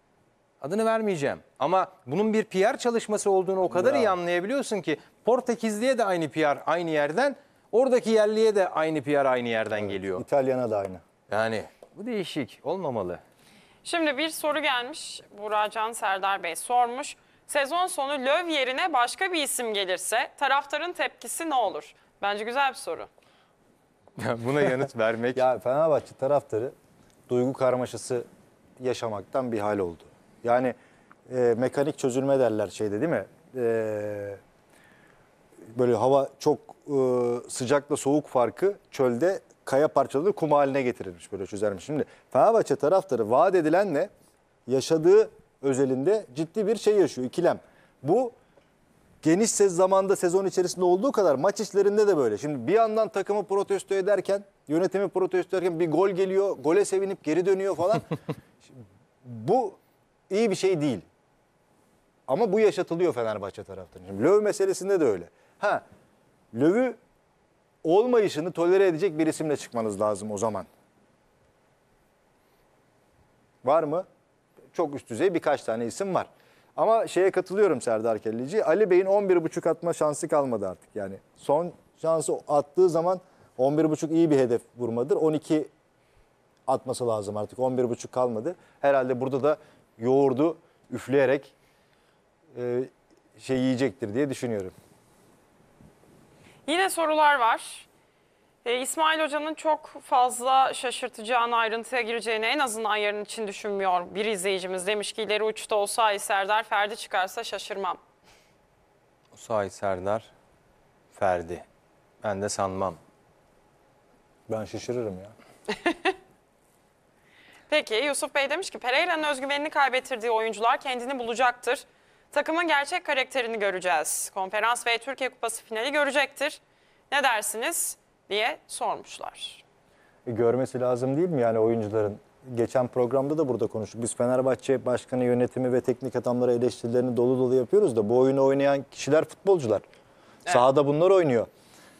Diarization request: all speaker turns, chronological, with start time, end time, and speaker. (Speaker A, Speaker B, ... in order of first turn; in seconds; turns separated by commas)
Speaker A: 0.6-10.2, Speaker B: 3.7-4.2, Speaker B: 9.8-11.0, Speaker A: 11.3-13.2, Speaker C: 13.8-23.1, Speaker A: 24.2-25.4, Speaker B: 25.3-26.7, Speaker B: 27.3-28.2, Speaker B: 28.8-30.7, Speaker B: 31.3-34.4, Speaker B: 35.7-44.1, Speaker B: 44.7-48.3, Speaker B: 49.2-58.1, Speaker B: 58.6-59.8, Speaker B: 60.3-61.0, Speaker B: 62.3-65.8, Speaker B: 66.5-67.0, Speaker B: 67.8-70.7, Speaker B: 73.6-74.0, Speaker B: 74.7-85.7, Speaker B: 86.7-91.5, Speaker B: 92.5-94.7, Speaker C: 96.7-97.9, Speaker C: 98.6-108.0, Speaker A: 109.3-110.3, Speaker A: 111.1-111.6, Speaker A: 112.2-113.0, Speaker B: 114.5-115.3, Speaker C: 115.7-116.1, Speaker C: 117.7-129.6, Speaker B: 130.2-139.8, Speaker B: 140.4-141.5